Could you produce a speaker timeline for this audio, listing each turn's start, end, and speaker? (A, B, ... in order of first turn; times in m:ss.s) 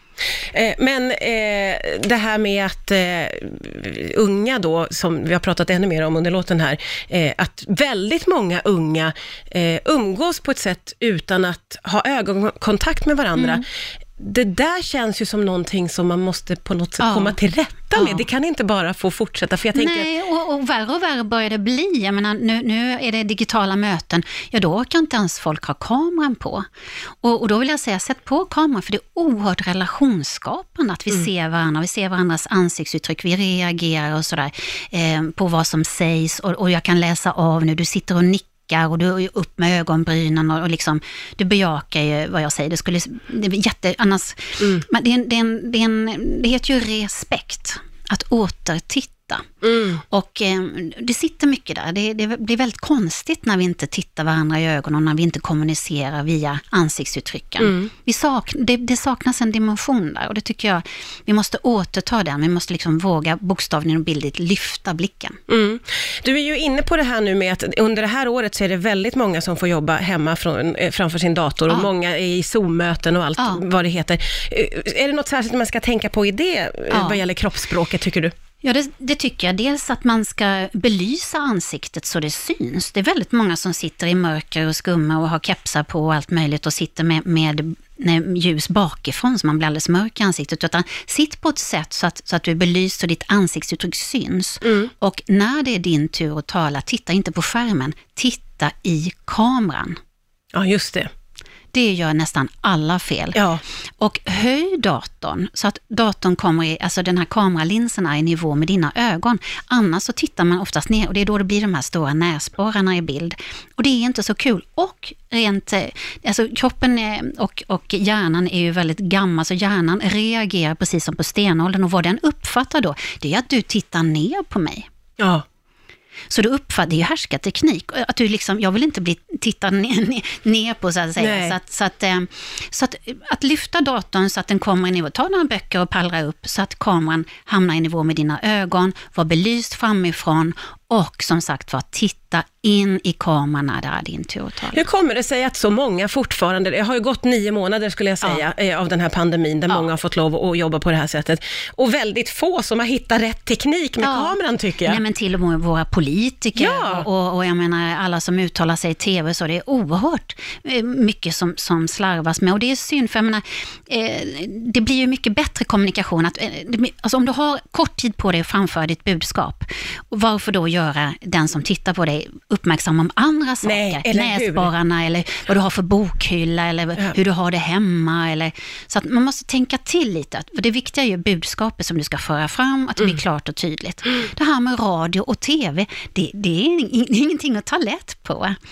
0:00.5-0:13.6 A
0:13.4-0:13.6 B
0:14.2-0:20.1 A
0:17.0-0:17.4 B
0:17.9-0:18.3 B
0:19.7-0:26.7 B
0:27.2-0:49.4 B
0:49.6-0:50.0 A
0:50.1-1:05.4 B
0:57.6-0:57.9 A
1:05.5-1:18.3 A
1:13.4-1:13.6 B
1:16.9-1:17.2 B
1:18.6-1:40.0 B
1:34.6-1:34.9 A
1:40.5-1:41.1 A
1:41.7-1:43.4 B
1:43.4-1:43.6 A
1:44.0-2:04.9 B
2:05.2-2:05.4 A
2:06.3-2:24.8 B
2:11.2-2:11.6 A
2:24.7-2:35.0 A
2:34.0-3:08.6 B
2:36.6-2:37.1 A
2:53.6-2:54.7 A